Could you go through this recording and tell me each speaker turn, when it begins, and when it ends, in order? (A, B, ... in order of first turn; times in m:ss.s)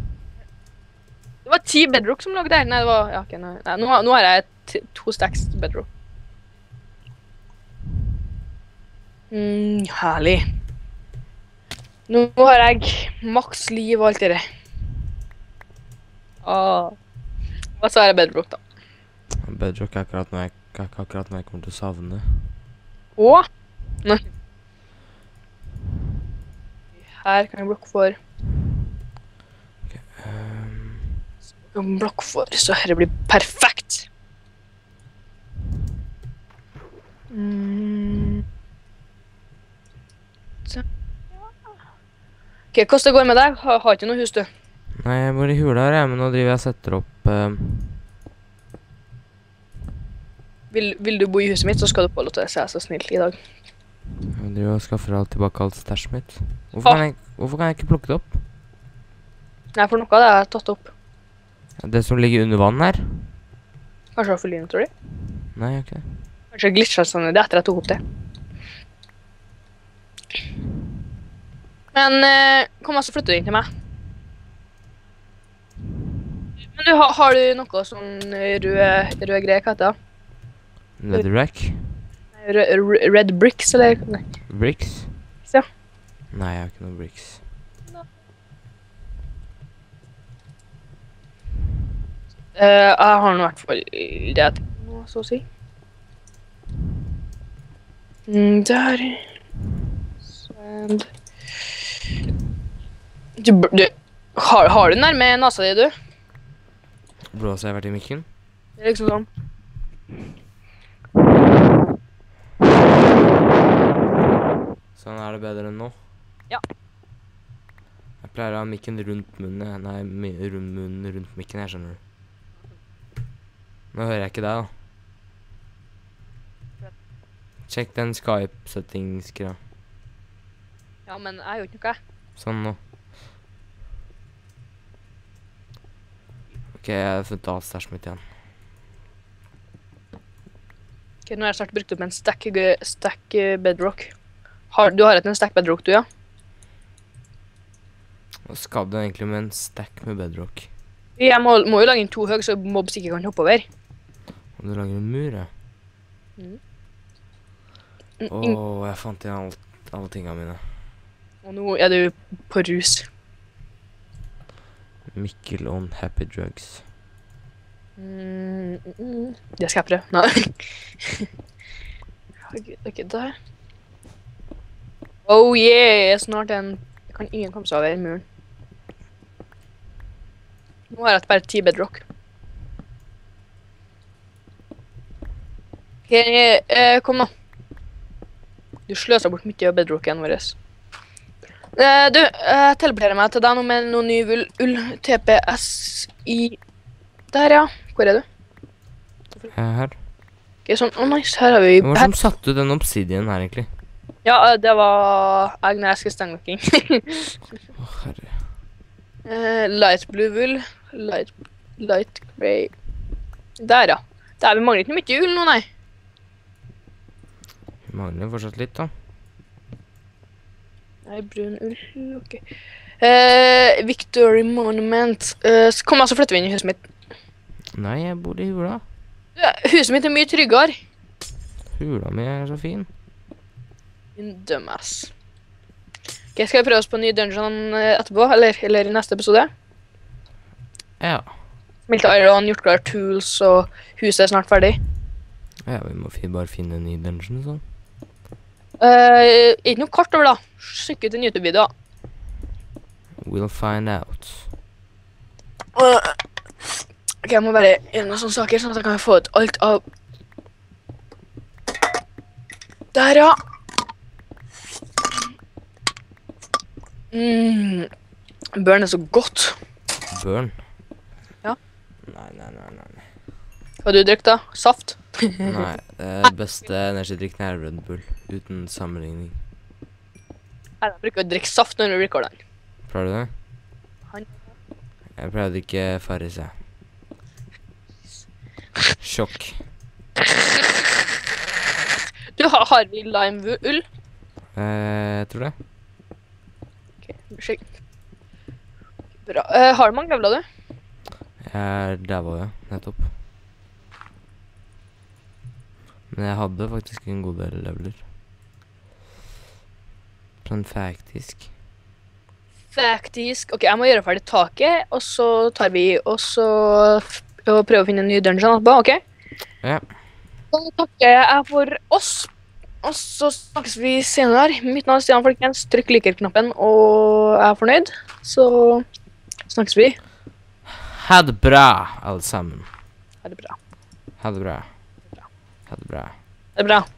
0:01.4-0:05.9 A
0:09.3-0:10.4 A
0:12.1-0:14.4 A
0:16.4-0:16.9 A
0:17.8-0:18.6 A
0:19.4-0:22.5 B
0:23.2-0:23.4 A
0:27.2-0:28.2 A
0:29.9-0:31.2 B
0:31.7-0:34.1 A
0:37.3-0:38.4 A
0:42.7-0:44.5 A
0:45.0-0:48.0 B
0:50.7-0:53.4 A
0:54.3-0:58.4 B
0:59.8-1:00.9 A
1:01.8-1:03.3 B
1:04.2-1:04.9 A
1:05.5-1:06.0 B
1:06.5-1:08.0 A
1:11.9-1:13.7 A
1:16.8-1:19.9 A
1:21.0-1:21.8 B
1:22.4-1:24.2 A
1:24.5-1:25.2 B
1:26.3-1:27.4 B
1:32.6-1:35.4 A
1:38.3-1:39.2 A
1:40.4-1:41.1 A
1:43.4-1:45.9 A
1:47.3-1:48.2 B
1:48.8-1:49.3 A
1:55.0-1:56.0 B
1:58.2-2:02.0 B
2:03.9-2:04.7 B
2:07.7-2:09.6 B
2:11.1-2:12.0 A
2:12.4-2:12.8 B
2:16.8-2:18.2 B
2:21.2-2:24.1 A
2:24.7-2:26.0 A
2:28.5-2:30.7 B
2:31.2-2:33.6 A
2:34.6-2:35.5 B
2:38.2-2:38.6 A
2:38.3-2:40.6 B
2:41.4-2:43.0 A
2:45.1-2:46.8 B
2:48.0-2:51.3 A
2:52.5-2:53.4 A
2:55.3-2:58.2 A
3:00.9-3:02.0 A
3:06.1-3:07.3 A
3:08.9-3:10.6 A
3:11.8-3:16.6 A
3:17.3-3:18.2 A
3:19.5-3:19.9 B
3:20.6-3:22.1 A
3:21.8-3:23.7 B
3:24.2-3:27.3 A
3:27.8-3:28.3 B
3:29.3-3:32.7 A
3:33.6-3:35.6 A
3:37.8-3:38.9 B
3:41.1-3:42.4 A
3:43.0-3:46.8 A
3:47.7-3:48.8 B
3:49.4-3:50.7 A
3:51.7-3:52.9 B
3:54.2-3:55.1 A
3:56.4-3:59.5 A
4:01.0-4:01.3 B
4:01.9-4:04.8 A
4:05.6-4:07.6 B
4:08.8-4:11.7 A
4:13.2-4:14.5 B
4:15.8-4:16.2 A
4:17.2-4:19.8 A
4:22.9-4:23.4 A
4:27.1-4:27.9 A
4:28.6-4:29.6 A
4:30.1-4:30.6 B
4:32.1-4:33.0 B
4:33.8-4:35.6 A
4:35.4-4:39.4 B
4:40.8-4:42.4 A
4:42.9-4:43.3 B
4:45.2-4:46.5 B
4:49.0-4:49.6 B
4:50.3-4:50.6 A
4:52.4-4:53.8 A
4:54.6-4:55.5 B
4:57.0-4:57.6 A
4:59.2-5:00.4 A
5:01.4-5:03.1 B
5:06.1-5:08.0 B
5:10.4-5:11.5 B
5:12.7-5:19.0 A
5:20.5-5:22.3 A
5:22.8-5:28.8 A
5:29.5-5:30.0 A
5:30.7-5:32.7 B
5:33.2-5:33.6 A
5:34.2-5:34.7 B
5:35.7-5:36.2 B
5:36.6-5:36.9 A